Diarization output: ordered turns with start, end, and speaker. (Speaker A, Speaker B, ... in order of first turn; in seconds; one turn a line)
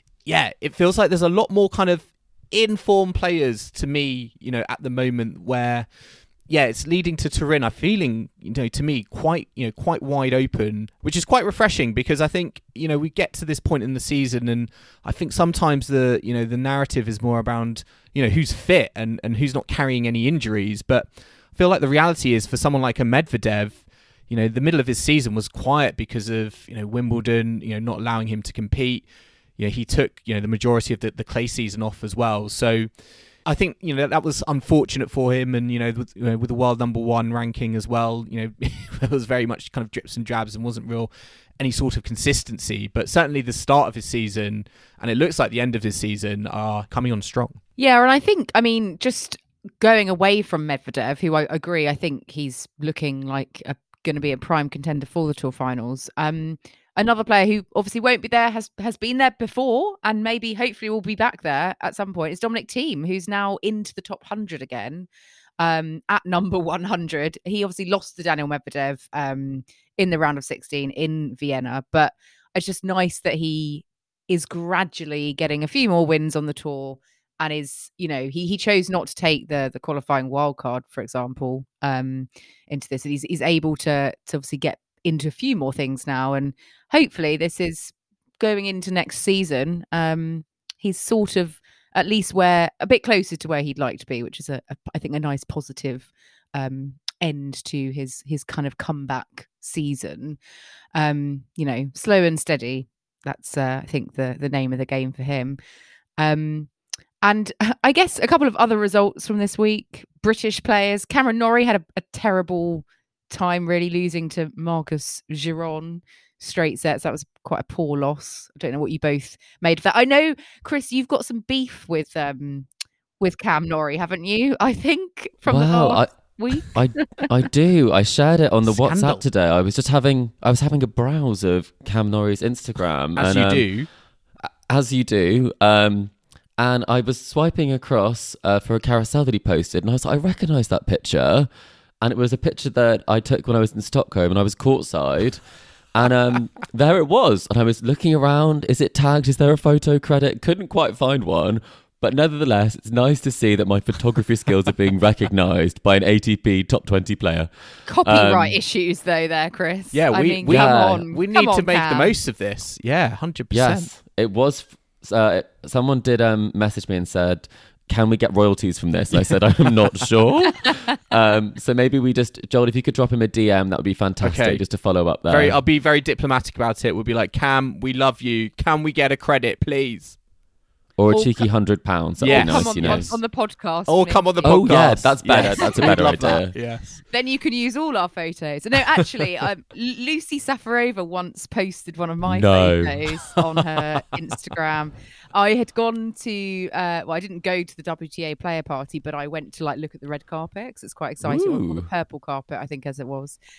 Speaker A: 0.2-47.6
Speaker B: 47.8-65.1
Speaker B: 65.6-100.4
Speaker B: 100.9-105.6
Speaker B: 106.2-122.7
Speaker B: 123.2-127.3
Speaker C: 125.5-133.7
Speaker A: 128.7-129.2
Speaker A: 133.2-133.9
Speaker C: 134.4-141.5
Speaker C: 142.0-145.4
Speaker C: 145.9-157.5
Speaker B: 157.8-162.1
Speaker C: 158.0-158.6
Speaker A: 159.9-163.9
Speaker C: 160.5-161.0
Speaker C: 163.5-175.6
Speaker A: 174.2-174.6
Speaker A: 175.2-180.2
Speaker C: 181.0-183.1
Speaker B: 181.1-181.4
Speaker B: 182.2-186.4
Speaker A: 182.2-183.2
Speaker A: 183.9-187.0
Speaker C: 184.4-186.5
Speaker B: 187.1-203.4
Speaker C: 192.2-193.0
Speaker C: 201.2-201.9